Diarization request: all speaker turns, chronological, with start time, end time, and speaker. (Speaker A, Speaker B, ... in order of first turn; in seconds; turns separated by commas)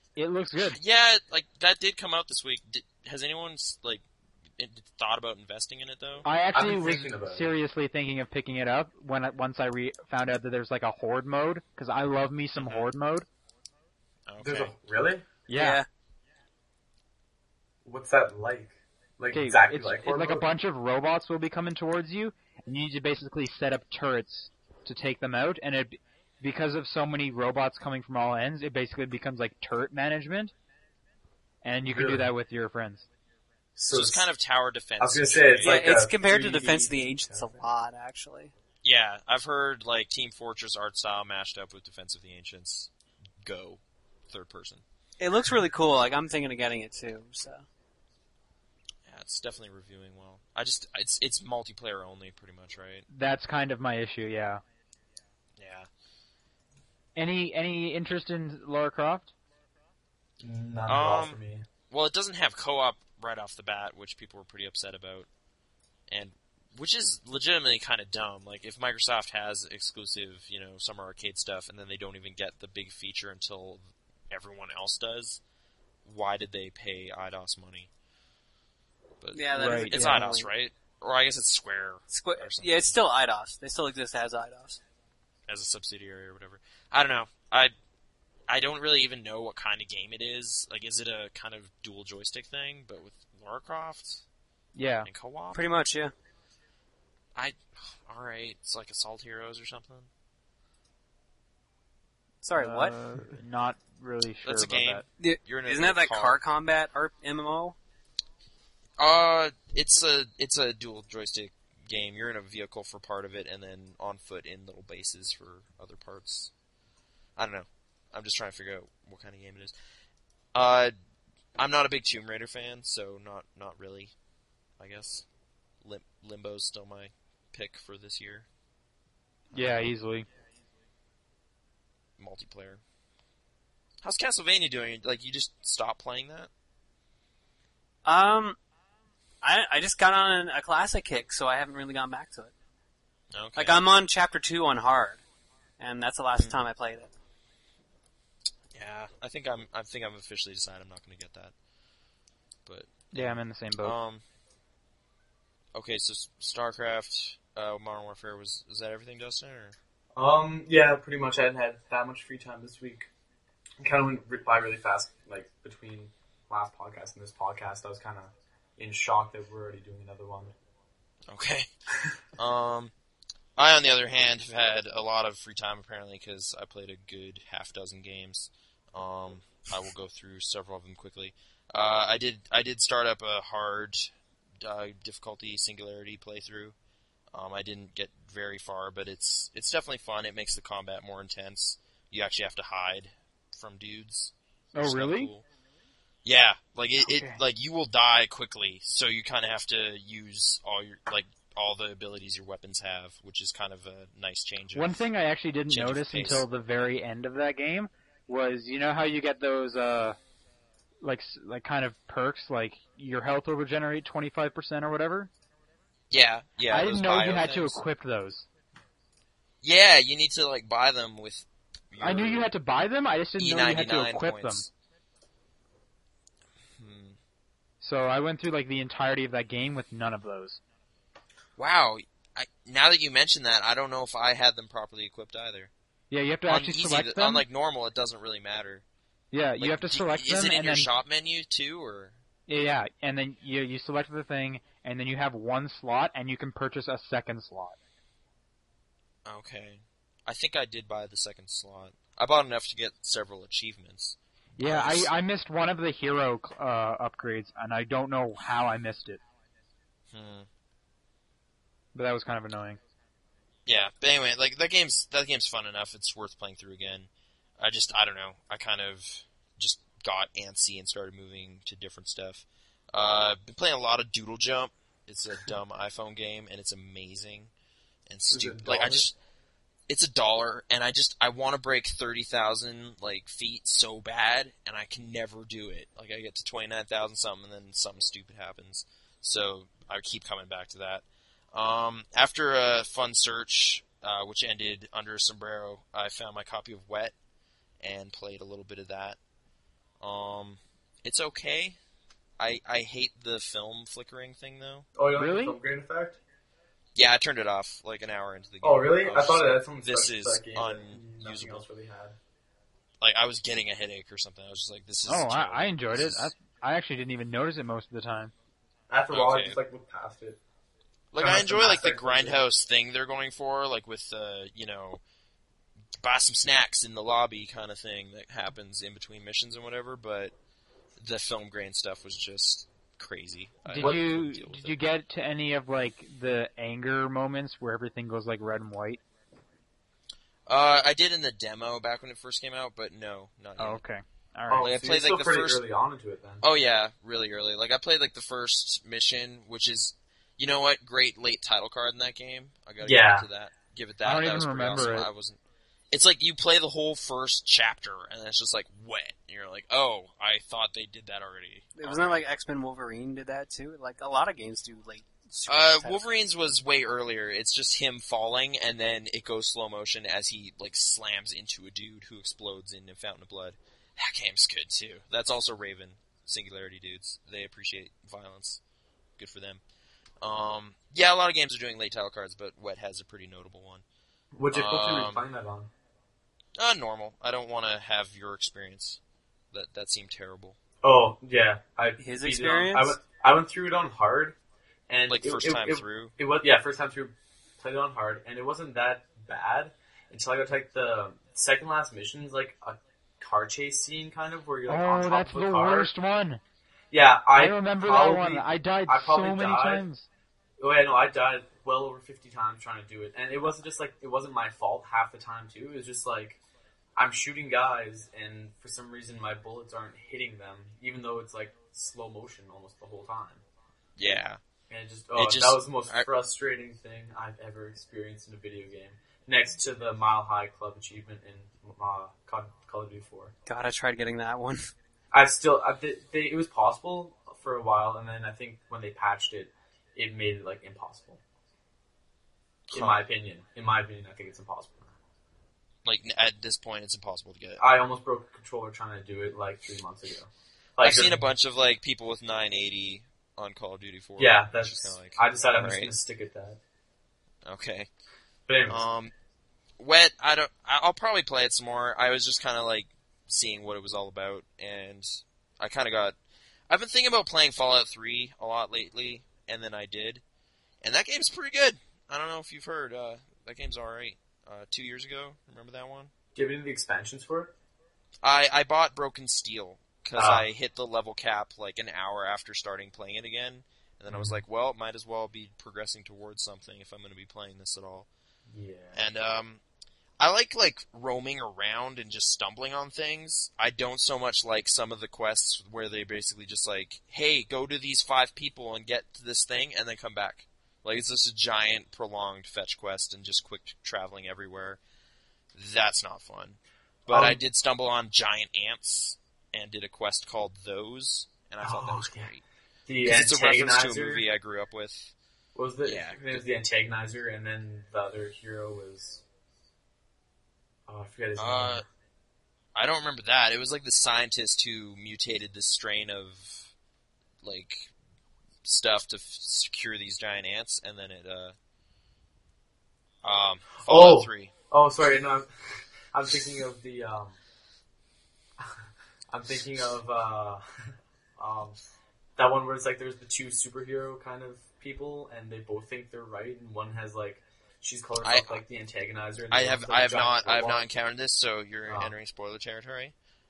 Speaker A: 0.2-0.8, Speaker B: 0.6-4.0, Speaker B: 4.6-6.3, Speaker A: 6.2-13.3, Speaker C: 6.5-7.5, Speaker B: 12.6-12.9, Speaker B: 14.3-14.7, Speaker C: 14.4-15.3, Speaker A: 15.5-15.8, Speaker D: 15.5-15.9, Speaker C: 17.9-20.5, Speaker A: 19.3-30.5, Speaker A: 31.6-33.1, Speaker C: 31.9-32.3, Speaker C: 33.8-34.3, Speaker B: 33.9-36.0, Speaker C: 35.0-37.7, Speaker D: 35.6-38.5, Speaker B: 38.8-42.9, Speaker B: 43.4-44.8, Speaker D: 45.2-47.7, Speaker B: 49.1-53.1, Speaker A: 53.1-54.6, Speaker B: 55.6-55.9, Speaker A: 57.2-59.3, Speaker C: 60.4-61.6, Speaker B: 60.9-65.3, Speaker B: 66.1-75.4, Speaker B: 76.0-77.9, Speaker B: 79.2-83.0, Speaker D: 79.3-80.5, Speaker A: 79.5-80.3, Speaker D: 82.1-84.8, Speaker B: 85.5-87.7, Speaker B: 88.5-94.2, Speaker A: 94.8-95.1, Speaker B: 95.0-95.6, Speaker D: 95.5-96.1, Speaker B: 97.3-100.1, Speaker D: 102.4-103.0, Speaker A: 102.6-105.0, Speaker B: 104.4-106.4, Speaker D: 105.2-107.8, Speaker B: 109.0-116.5, Speaker B: 117.4-119.7, Speaker B: 120.5-120.9, Speaker B: 121.6-124.1, Speaker B: 124.8-125.3, Speaker B: 125.8-128.5, Speaker A: 129.5-130.3, Speaker B: 132.2-132.8, Speaker B: 134.0-136.5, Speaker D: 138.1-138.6, Speaker D: 139.4-142.5, Speaker B: 143.3-143.8, Speaker D: 143.6-145.2, Speaker D: 145.8-147.1, Speaker B: 148.7-151.5, Speaker B: 152.7-154.2, Speaker A: 153.1-154.0, Speaker B: 155.7-159.8, Speaker C: 160.2-163.1, Speaker C: 163.8-170.5, Speaker B: 171.3-171.7, Speaker B: 172.4-172.9, Speaker B: 173.6-186.8, Speaker B: 187.3-195.4, Speaker A: 194.8-195.3, Speaker B: 196.2-205.1, Speaker A: 197.0-197.4, Speaker A: 204.7-210.2, Speaker B: 205.7-206.4, Speaker A: 211.0-215.3, Speaker B: 216.1-217.8, Speaker A: 216.7-218.5, Speaker B: 219.6-222.5, Speaker A: 222.0-224.6, Speaker B: 223.4-224.7, Speaker B: 226.8-227.2, Speaker A: 227.8-230.6, Speaker B: 231.6-235.7, Speaker A: 236.1-237.4, Speaker B: 236.5-238.8, Speaker A: 239.3-240.9, Speaker B: 239.6-242.2, Speaker A: 242.5-247.8, Speaker B: 249.3-255.1, Speaker A: 254.6-259.2, Speaker B: 260.1-260.5, Speaker A: 261.9-262.8, Speaker B: 263.7-277.5, Speaker B: 278.1-279.1, Speaker C: 278.3-279.0, Speaker B: 279.9-297.1, Speaker B: 297.8-299.2, Speaker B: 300.0-301.8, Speaker B: 302.4-304.9, Speaker C: 304.9-306.2, Speaker A: 305.2-305.6, Speaker B: 306.9-311.6, Speaker C: 308.6-312.2, Speaker B: 313.0-316.3, Speaker A: 315.1-318.3, Speaker C: 318.9-320.4, Speaker B: 319.1-319.6, Speaker B: 321.1-325.0, Speaker C: 321.2-322.4, Speaker B: 326.0-330.3, Speaker B: 331.0-334.8, Speaker A: 333.7-339.0, Speaker C: 333.8-334.0, Speaker B: 340.5-343.8, Speaker A: 343.6-344.8, Speaker C: 344.5-346.4, Speaker B: 344.6-345.6, Speaker B: 346.4-355.4, Speaker C: 352.8-353.3, Speaker A: 354.0-355.1, Speaker B: 355.9-362.3, Speaker D: 361.8-366.2, Speaker B: 365.5-378.6, Speaker B: 379.2-379.6, Speaker B: 380.2-383.8, Speaker C: 384.3-385.7, Speaker B: 384.5-385.2, Speaker B: 386.6-389.0, Speaker B: 389.5-390.6, Speaker C: 390.8-394.4, Speaker D: 392.0-393.0, Speaker C: 394.9-405.9, Speaker B: 395.1-396.1, Speaker A: 404.7-406.4, Speaker C: 406.9-409.9, Speaker A: 407.4-410.1, Speaker C: 410.6-416.4, Speaker C: 417.0-423.4, Speaker B: 424.0-424.4, Speaker C: 424.7-433.3, Speaker B: 425.2-426.1, Speaker D: 433.5-434.7, Speaker C: 435.1-441.2, Speaker B: 442.7-443.0, Speaker C: 442.7-444.9, Speaker B: 445.9-447.6, Speaker C: 447.6-451.2, Speaker B: 450.8-455.9, Speaker C: 454.2-456.6, Speaker B: 457.4-457.9, Speaker C: 458.5-458.8, Speaker B: 458.7-459.1, Speaker B: 459.8-466.2, Speaker B: 466.7-470.2, Speaker B: 470.8-476.1, Speaker C: 476.4-477.5, Speaker B: 478.2-488.1, Speaker C: 480.2-480.5, Speaker C: 484.1-484.4, Speaker C: 488.5-489.0, Speaker B: 488.9-489.6, Speaker B: 490.2-504.8, Speaker B: 505.5-512.4, Speaker C: 507.1-507.4, Speaker C: 511.6-512.3, Speaker C: 512.9-514.2, Speaker B: 513.0-515.1, Speaker C: 515.5-519.2, Speaker B: 515.8-516.4, Speaker C: 520.9-521.9, Speaker B: 521.4-521.8, Speaker B: 522.8-526.7, Speaker B: 527.4-527.9, Speaker B: 528.6-531.6, Speaker B: 533.2-534.5, Speaker C: 533.8-535.5, Speaker C: 536.1-537.4, Speaker C: 539.3-540.6, Speaker C: 541.4-541.8, Speaker C: 542.4-550.9, Speaker B: 548.2-548.6, Speaker B: 549.5-553.1, Speaker C: 551.9-552.1